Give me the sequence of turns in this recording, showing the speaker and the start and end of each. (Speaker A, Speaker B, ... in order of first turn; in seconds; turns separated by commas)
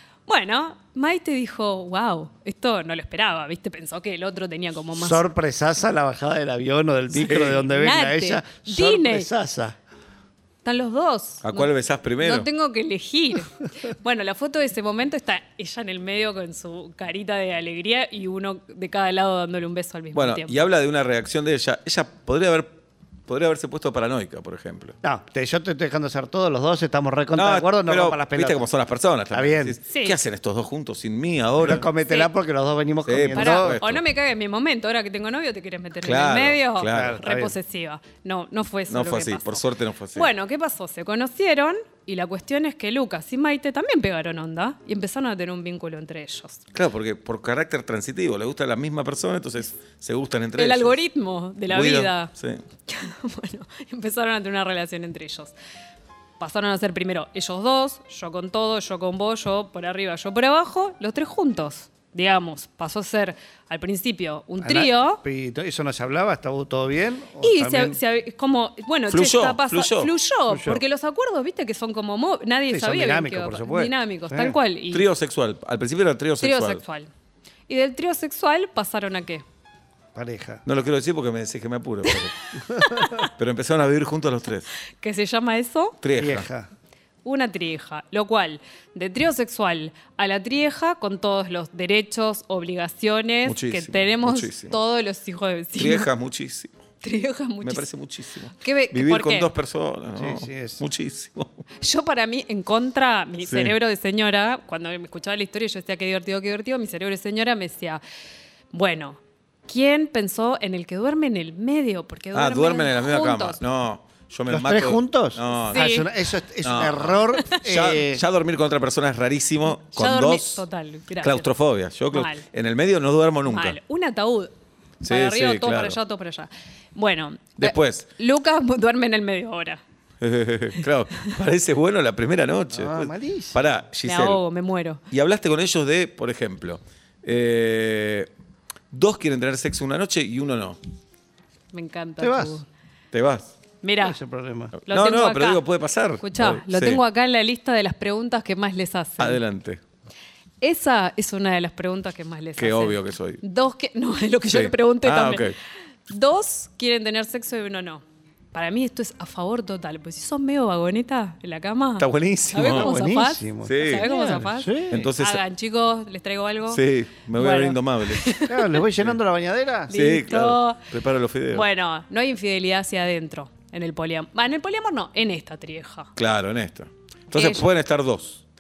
Speaker A: 0.3-5.2, Speaker B: 4.9-9.8, Speaker C: 7.2-7.7, Speaker A: 7.6-9.3, Speaker A: 10.6-20.6, Speaker C: 11.4-12.5, Speaker C: 20.1-22.7, Speaker C: 23.3-24.9, Speaker B: 25.0-28.6, Speaker C: 27.3-31.9, Speaker B: 29.3-29.8, Speaker A: 29.9-30.2, Speaker B: 31.6-33.8, Speaker A: 32.0-32.3, Speaker C: 33.1-34.0, Speaker A: 33.4-39.6, Speaker C: 36.0-37.2, Speaker B: 36.9-37.6, Speaker C: 38.9-40.3, Speaker A: 40.1-46.6, Speaker C: 46.7-51.0, Speaker A: 50.6-52.3, Speaker C: 51.7-52.6, Speaker A: 52.9-55.5, Speaker A: 56.4-65.2, Speaker B: 64.6-68.0, Speaker A: 67.4-75.0, Speaker C: 69.1-70.1, Speaker B: 70.5-70.8, Speaker B: 72.7-74.6, Speaker C: 74.9-76.8, Speaker A: 76.4-77.1, Speaker A: 77.7-79.4, Speaker B: 80.2-80.6, Speaker C: 80.7-82.3, Speaker B: 82.7-83.0, Speaker A: 82.8-83.3, Speaker C: 83.4-84.7, Speaker A: 85.0-86.0, Speaker C: 86.0-86.5, Speaker B: 86.2-86.7, Speaker A: 87.2-96.1, Speaker C: 93.5-94.8, Speaker C: 95.8-96.7, Speaker A: 97.0-97.9, Speaker C: 97.6-101.6, Speaker A: 98.6-99.5, Speaker B: 100.2-100.8, Speaker A: 101.8-108.0, Speaker C: 103.4-103.8, Speaker A: 108.7-113.6, Speaker C: 112.3-115.9, Speaker B: 114.5-118.2, Speaker A: 115.7-116.1, Speaker C: 116.6-120.7, Speaker A: 117.4-117.7, Speaker A: 119.9-121.5, Speaker C: 121.2-123.8, Speaker A: 122.1-122.5, Speaker A: 123.5-124.5, Speaker C: 125.0-126.0, Speaker A: 125.0-129.8, Speaker C: 127.6-128.1, Speaker C: 130.2-134.4, Speaker B: 132.7-133.6, Speaker A: 134.0-135.0, Speaker C: 135.1-138.3, Speaker C: 138.9-140.8, Speaker A: 141.7-142.7, Speaker B: 142.2-142.6, Speaker C: 143.1-143.5, Speaker A: 143.8-144.2, Speaker B: 144.0-144.8, Speaker C: 144.8-147.0, Speaker A: 144.9-145.6, Speaker A: 146.2-149.4, Speaker C: 149.2-149.8, Speaker A: 150.6-155.5, Speaker C: 152.6-153.4, Speaker C: 154.5-155.6, Speaker A: 156.1-158.0, Speaker A: 158.5-166.8, Speaker C: 162.0-162.9, Speaker B: 162.6-165.1, Speaker C: 163.6-164.1, Speaker C: 164.9-165.4, Speaker C: 166.7-168.4, Speaker A: 167.3-168.7, Speaker B: 168.5-169.9, Speaker A: 169.9-170.8, Speaker C: 169.9-171.7, Speaker A: 171.5-176.1, Speaker C: 176.2-178.4, Speaker A: 177.3-177.7